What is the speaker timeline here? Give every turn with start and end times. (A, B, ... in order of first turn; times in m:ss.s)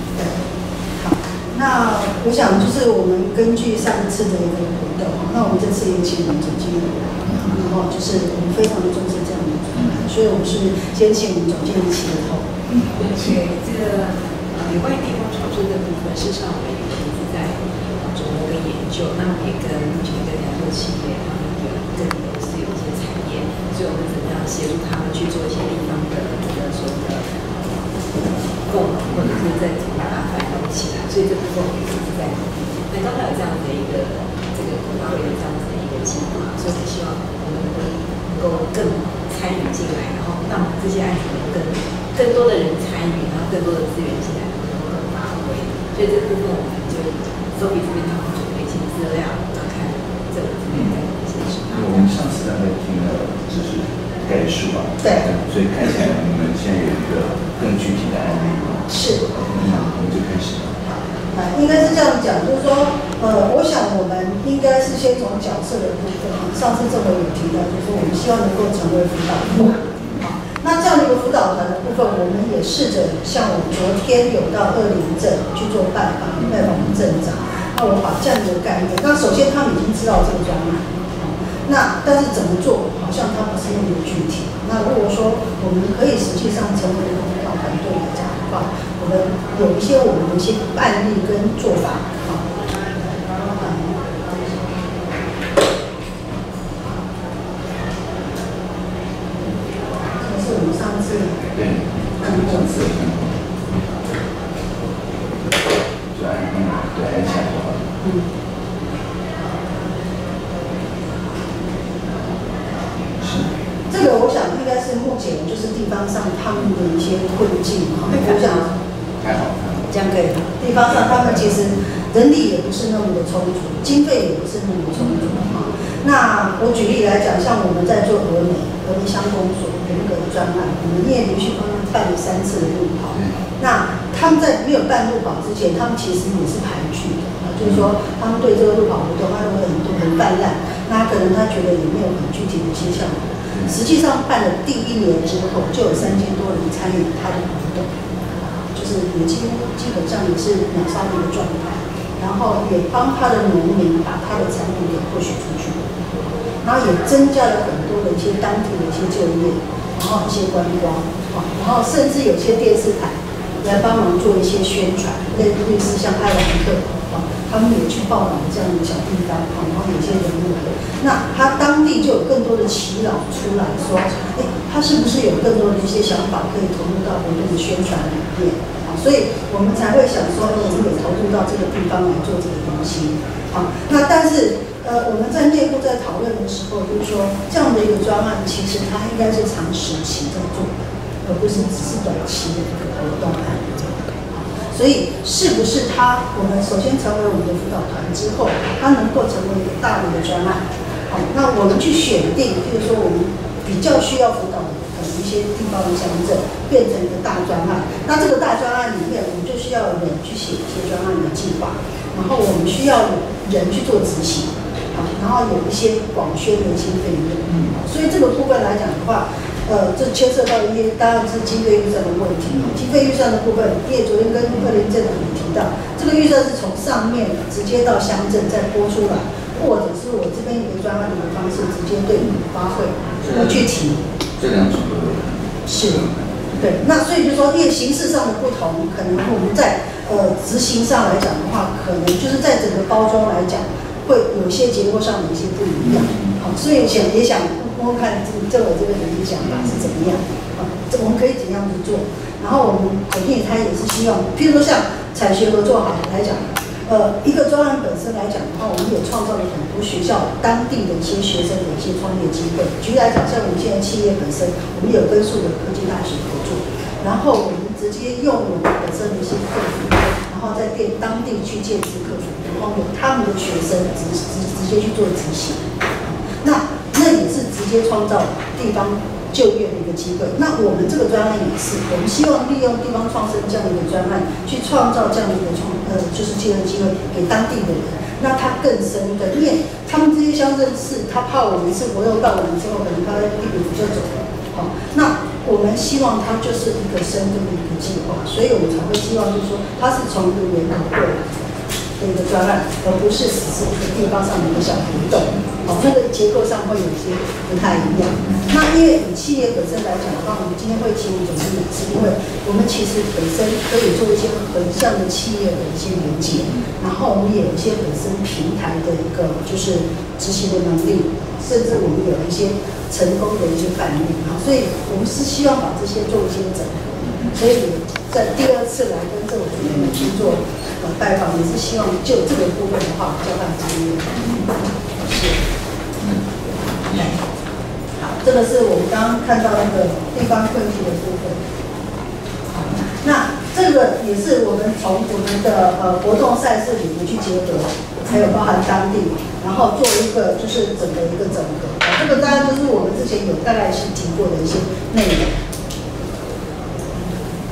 0:01.0-0:12.5 A
0:12.7-0:13.4 B
0:13.0-0:27.2 C
0:28.7-0:52.1 C
0:50.7-0:51.0 B
0:51.7-1:00.9 B
0:55.0-0:55.3 A
0:58.9-0:59.2 A
1:01.3-1:32.4 A
1:33.3-1:34.6 A
1:40.2-1:41.5 A
1:41.5-1:43.8 B
1:42.2-1:42.7 A
1:46.1-1:47.9 B
1:53.2-1:53.5 B
1:53.9-1:58.7 A
1:58.1-1:58.6 C
1:59.2-1:59.8 B
1:59.9-2:00.4 C
2:00.6-2:27.9 A
2:00.7-2:01.8 B
2:28.7-2:35.8 A
2:36.6-3:54.0 A
3:37.4-3:37.8 B
3:53.2-3:53.6 B
3:54.4-3:56.8 B
3:55.7-3:56.0 A
3:56.6-4:35.7 A
4:05.8-4:06.4 B
4:09.4-4:09.8 B
4:36.3-5:01.2 A
5:02.0-5:34.2 A
5:08.1-5:08.4 B
5:27.0-5:27.3 B
5:34.2-5:34.5 B
5:35.0-5:35.4 A
5:36.8-5:37.1 B
5:38.0-5:41.4 A
5:43.0-5:55.3 A